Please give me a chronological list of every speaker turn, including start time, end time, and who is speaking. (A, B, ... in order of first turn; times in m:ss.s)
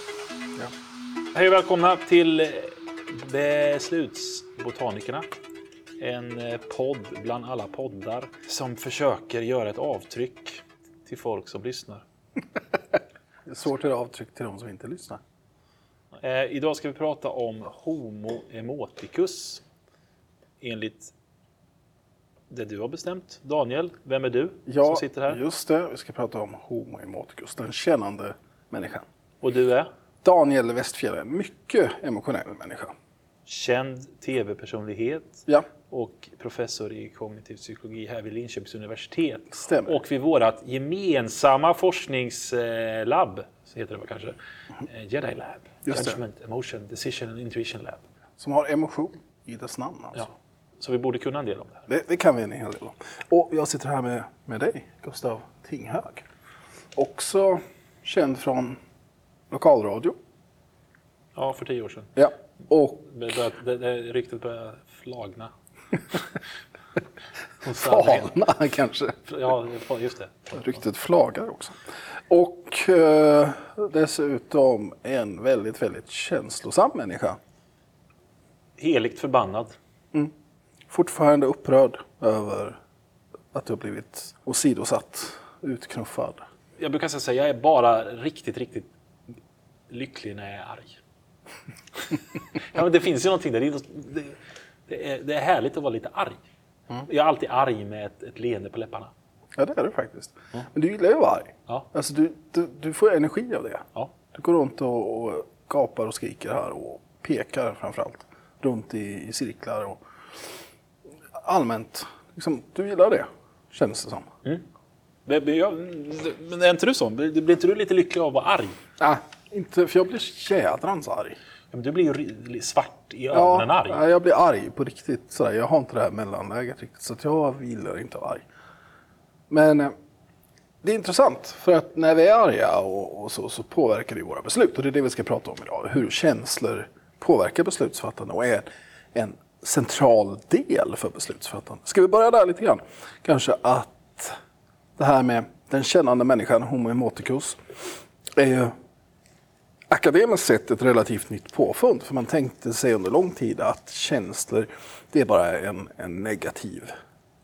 0:01.3-0:05.3 A
0:06.0-0:12.0 A
0:13.4-0:15.2 B
0:16.1-0:19.6 A
0:20.6-0:21.1 A
0:22.5-0:25.4 A
0:24.7-0:29.0 B
0:29.4-0:29.9 A
0:30.2-0:32.9 B
0:33.4-0:48.0 A
0:39.5-0:40.0 B
0:45.8-0:46.2 B
0:48.4-0:50.3 B
0:50.1-0:51.9 A
0:51.9-0:56.2 B
0:56.9-0:58.8 B
0:59.5-1:00.2 B
1:01.4-1:02.2 A
1:02.2-1:03.1 B
1:03.0-1:05.5 A
1:07.6-1:08.3 A
1:07.7-1:09.2 B
1:09.3-1:10.7 A
1:10.5-1:17.4 B
1:18.8-1:19.8 A
1:20.9-1:22.8 B
1:23.5-1:26.4 B
1:26.8-1:28.9 A
1:29.9-1:31.0 A
1:32.5-1:34.4 A
1:34.9-1:36.4 A
1:37.0-1:39.1 A
1:39.6-1:50.0 B
1:51.4-1:54.3 B
1:55.2-1:58.8 A
1:59.0-2:01.4 B
2:01.7-2:04.0 A
2:03.3-2:08.4 B
2:09.5-2:09.9 B
2:10.8-2:24.4 B
2:25.0-2:27.6 B
2:28.3-2:28.7 B
2:29.9-2:36.9 B